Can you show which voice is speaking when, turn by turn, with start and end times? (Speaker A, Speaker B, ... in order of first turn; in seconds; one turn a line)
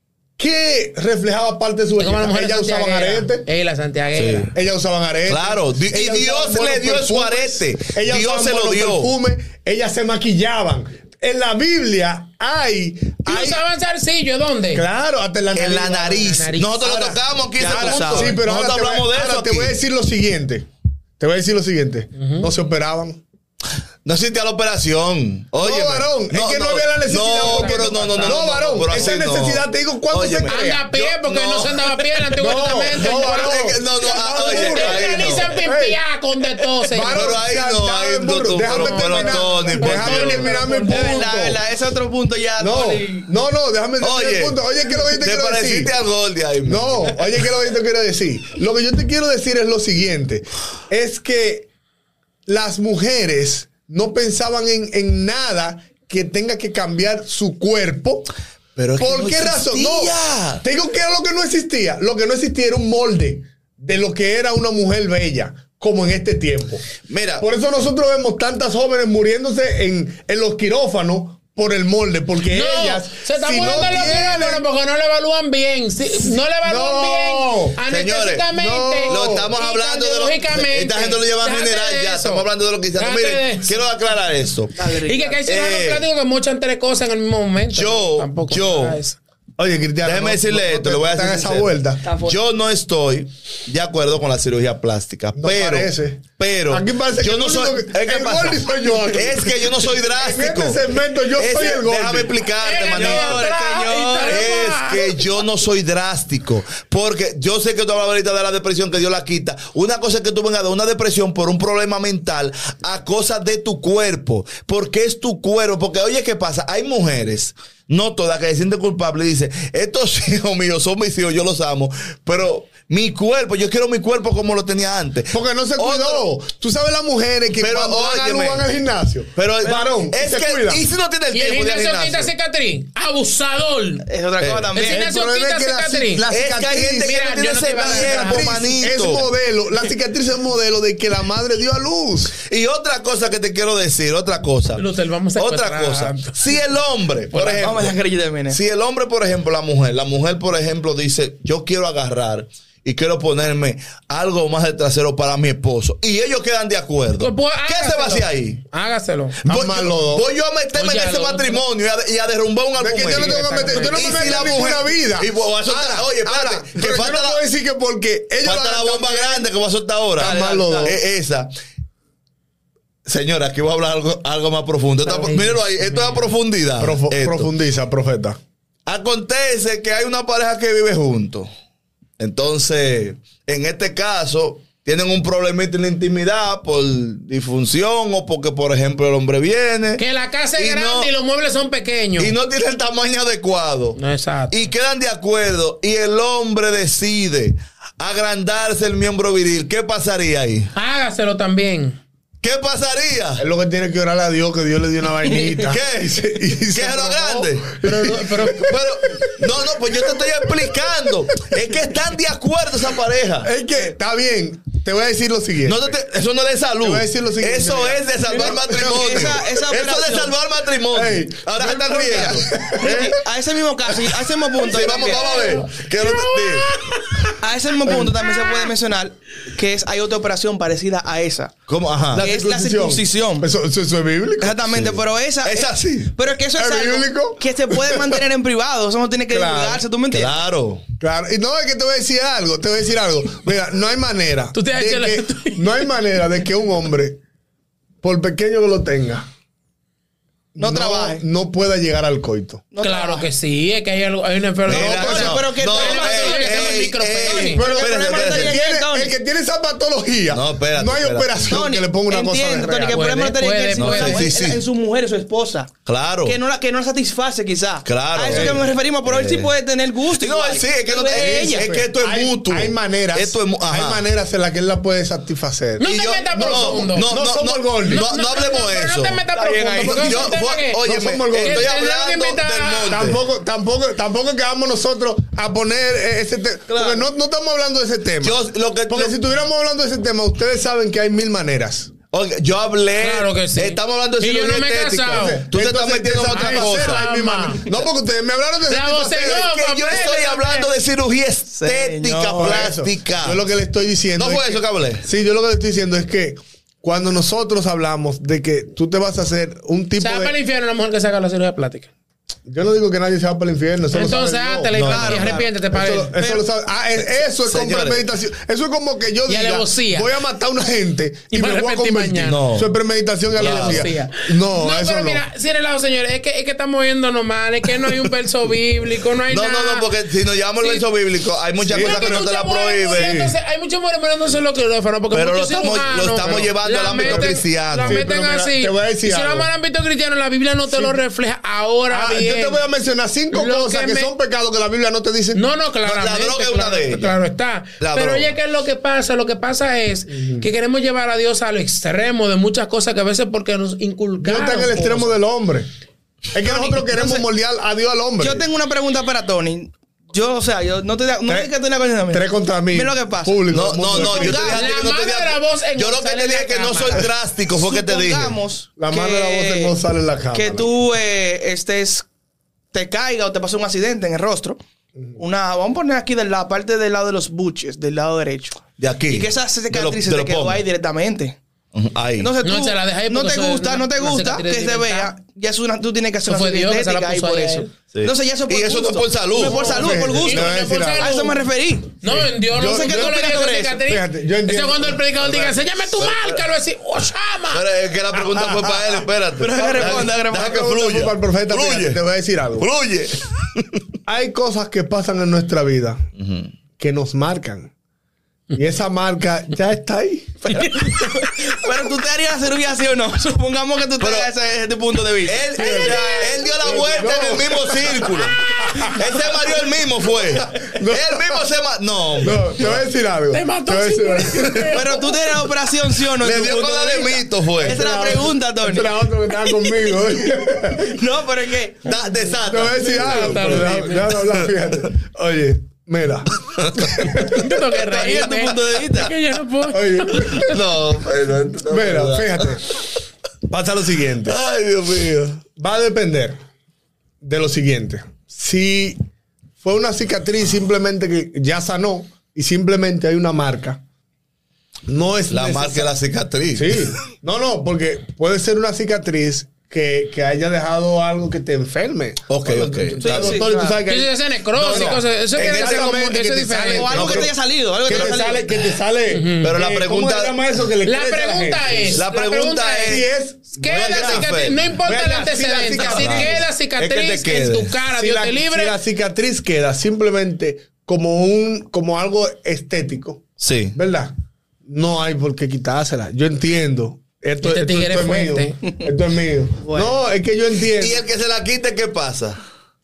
Speaker A: 0.4-3.5
Speaker B: 2.0-4.5
Speaker C: 4.1-4.5
Speaker A: 4.5-13.6
Speaker C: 5.3-9.1
Speaker B: 13.3-14.8
Speaker A: 14.7-20.7
Speaker C: 15.5-19.8
Speaker B: 16.1-16.9
Speaker D: 17.6-18.4
Speaker A: 21.2-23.2
Speaker B: 22.1-22.5
Speaker C: 24.0-32.0
Speaker A: 25.6-30.9
Speaker B: 27.4-28.4
Speaker B: 30.5-37.4
Speaker A: 32.4-36.0
Speaker C: 33.0-35.6
Speaker A: 36.9-41.6
Speaker C: 37.1-40.6
Speaker B: 38.7-41.1
Speaker D: 40.5-43.3
Speaker A: 42.6-45.9
Speaker C: 44.0-47.2
Speaker A: 46.6-51.7
Speaker A: 52.5-58.3
Speaker C: 58.8-60.6
Speaker A: 59.0-66.9
Speaker C: 67.1-67.5
Speaker A: 67.4-74.6
Speaker B: 72.5-82.4
Speaker A: 76.6-77.8
Speaker C: 77.9-78.5
Speaker A: 78.5-79.5
Speaker C: 79.1-84.8
Speaker B: 83.0-83.7
Speaker D: 84.8-85.4
Speaker B: 84.9-89.2
Speaker C: 85.5-86.1
Speaker C: 87.7-89.0
Speaker A: 89.6-92.1
Speaker C: 90.0-100.8
Speaker D: 92.0-92.4
Speaker A: 95.3-102.3
Speaker C: 101.3-103.5
Speaker B: 102.6-105.4
Speaker D: 102.9-104.5
Speaker C: 104.2-126.3
Speaker A: 125.3-130.8
Speaker C: 127.6-128.6
Speaker C: 129.4-132.3
Speaker B: 131.3-134.1
Speaker D: 134.1-135.0
Speaker C: 134.4-134.9
Speaker B: 134.7-136.3
Speaker A: 134.8-137.2
Speaker C: 136.3-139.3
Speaker B: 137.0-138.7
Speaker A: 137.8-142.4
Speaker C: 142.4-144.8
Speaker B: 144.8-146.5
Speaker C: 145.4-147.9
Speaker D: 147.3-148.6
Speaker C: 148.5-158.6
Speaker B: 157.2-159.4
Speaker C: 159.4-167.4
Speaker A: 159.4-160.2
Speaker B: 160.7-161.6
Speaker A: 162.8-169.5
Speaker B: 163.0-164.7
Speaker C: 168.4-171.5
Speaker D: 170.2-171.0
Speaker A: 170.2-171.0
Speaker C: 173.1-177.5
Speaker B: 175.0-176.2
Speaker A: 176.8-178.4
Speaker C: 178.9-181.5
Speaker C: 182.2-190.0
Speaker B: 190.0-192.3
Speaker C: 190.6-191.1
Speaker C: 192.2-194.0
Speaker B: 194.0-194.6
Speaker C: 194.5-200.7
Speaker B: 200.7-202.0
Speaker C: 202.4-203.4
Speaker A: 203.4-209.4
Speaker C: 205.6-207.8
Speaker B: 207.8-208.7
Speaker C: 208.5-213.5
Speaker A: 209.9-210.2
Speaker A: 213.4-215.9
Speaker C: 215.6-223.1
Speaker A: 216.8-219.3
Speaker D: 218.3-220.3
Speaker A: 220.9-223.2
Speaker D: 222.8-225.6
Speaker C: 224.6-226.8
Speaker B: 224.6-227.3
Speaker D: 227.4-231.6
Speaker B: 228.2-228.7
Speaker C: 231.7-232.2
Speaker A: 232.1-234.6
Speaker D: 232.1-233.5
Speaker D: 234.4-240.4
Speaker C: 234.7-236.1
Speaker A: 236.6-238.2
Speaker A: 239.3-239.8
Speaker C: 240.1-240.8
Speaker A: 241.0-247.2
Speaker B: 244.6-245.8
Speaker A: 248.0-249.3
Speaker A: 250.6-252.6
Speaker D: 250.6-251.2
Speaker D: 252.7-253.3
Speaker B: 252.8-257.6
Speaker C: 254.7-258.6
Speaker D: 254.7-259.1
Speaker A: 254.7-255.4
Speaker A: 257.6-263.1
Speaker C: 260.3-261.6
Speaker D: 261.4-265.7
Speaker B: 262.9-264.3
Speaker C: 263.7-264.6
Speaker C: 265.9-266.4
Speaker D: 266.2-271.7
Speaker C: 267.9-269.5
Speaker A: 268.3-268.6
Speaker C: 270.1-274.1
Speaker A: 271.1-278.0
Speaker B: 275.8-277.1
Speaker C: 275.8-279.3
Speaker B: 277.9-283.0
Speaker D: 279.3-280.3
Speaker C: 279.8-283.2
Speaker A: 280.8-281.7
Speaker A: 282.9-291.9
Speaker C: 288.2-289.2
Speaker C: 292.1-297.1
Speaker B: 293.0-295.4
Speaker A: 295.1-299.5
Speaker B: 296.3-297.6
Speaker B: 298.7-300.7
Speaker C: 299.4-303.4
Speaker D: 301.6-302.6
Speaker A: 302.3-310.3
Speaker C: 304.1-305.1
Speaker B: 310.0-311.9
Speaker A: 312.4-325.2
Speaker B: 313.9-316.2
Speaker C: 314.7-315.4
Speaker D: 314.9-315.5
Speaker C: 317.4-318.1
Speaker B: 319.3-320.1
Speaker B: 321.3-322.4
Speaker C: 322.2-322.7
Speaker C: 323.4-323.9
Speaker B: 323.4-329.9
Speaker C: 329.3-333.2
Speaker A: 331.6-332.3
Speaker B: 331.7-342.6
Speaker A: 332.9-333.3
Speaker C: 335.1-338.1
Speaker A: 336.2-339.5
Speaker A: 340.7-341.0
Speaker A: 341.9-345.4
Speaker B: 343.3-344.1
Speaker B: 345.3-355.2
Speaker C: 345.8-347.1
Speaker C: 347.8-348.4
Speaker A: 350.1-350.4
Speaker A: 354.2-355.7
Speaker A: 356.3-358.4
Speaker D: 356.4-357.2
Speaker D: 358.2-364.7
Speaker A: 362.1-364.6
Speaker C: 363.5-368.4
Speaker B: 364.5-367.1
Speaker D: 367.5-369.8
Speaker A: 368.8-370.7
Speaker D: 370.3-372.1
Speaker D: 372.7-374.6
Speaker D: 375.2-381.4
Speaker C: 378.8-380.6
Speaker C: 381.7-382.3
Speaker D: 382.2-392.0
Speaker B: 382.4-385.1
Speaker B: 386.2-387.7
Speaker C: 387.9-390.0
Speaker B: 389.4-391.4
Speaker A: 389.5-391.1
Speaker B: 392.0-397.6
Speaker A: 392.1-393.2
Speaker D: 392.5-393.8
Speaker A: 393.8-395.6
Speaker C: 396.0-396.4
Speaker C: 397.5-402.0
Speaker A: 398.1-402.7
Speaker D: 399.4-400.8
Speaker C: 402.6-403.6
Speaker A: 404.1-406.1
Speaker C: 406.1-406.5
Speaker A: 406.8-407.7
Speaker A: 408.5-410.6
Speaker D: 410.4-416.1
Speaker C: 414.0-414.3
Speaker C: 415.2-422.9
Speaker B: 415.6-416.5
Speaker A: 415.6-415.9
Speaker A: 416.6-419.0
Speaker A: 420.4-421.4
Speaker A: 422.2-424.8
Speaker B: 423.3-425.2
Speaker D: 424.7-429.0
Speaker C: 426.1-428.1
Speaker A: 427.6-430.9
Speaker D: 430.8-431.8
Speaker C: 431.8-434.6
Speaker A: 432.4-437.4
Speaker B: 432.8-434.2
Speaker C: 436.4-437.3
Speaker B: 437.0-440.6
Speaker D: 437.7-439.1
Speaker A: 439.7-440.5
Speaker C: 440.4-442.6
Speaker A: 441.7-442.6
Speaker A: 443.5-444.4
Speaker C: 444.2-445.4
Speaker A: 445.6-446.4
Speaker A: 447.2-449.0
Speaker A: 449.6-453.8
Speaker A: 454.9-455.9
Speaker C: 455.3-456.9
Speaker A: 456.5-472.0
Speaker C: 462.3-463.4
Speaker D: 463.0-463.8
Speaker B: 463.9-467.1
Speaker C: 464.6-465.8
Speaker D: 465.4-465.9
Speaker D: 466.7-468.7
Speaker C: 466.9-467.3
Speaker C: 467.9-468.2
Speaker B: 469.1-469.6
Speaker C: 469.4-470.4
Speaker B: 470.8-478.8
Speaker C: 471.9-473.1
Speaker A: 472.9-476.4
Speaker C: 473.7-474.6
Speaker C: 475.8-477.7
Speaker A: 477.9-484.1
Speaker C: 483.4-483.8
Speaker A: 484.6-491.0
Speaker B: 487.4-488.6
Speaker D: 489.6-489.9
Speaker C: 490.7-492.4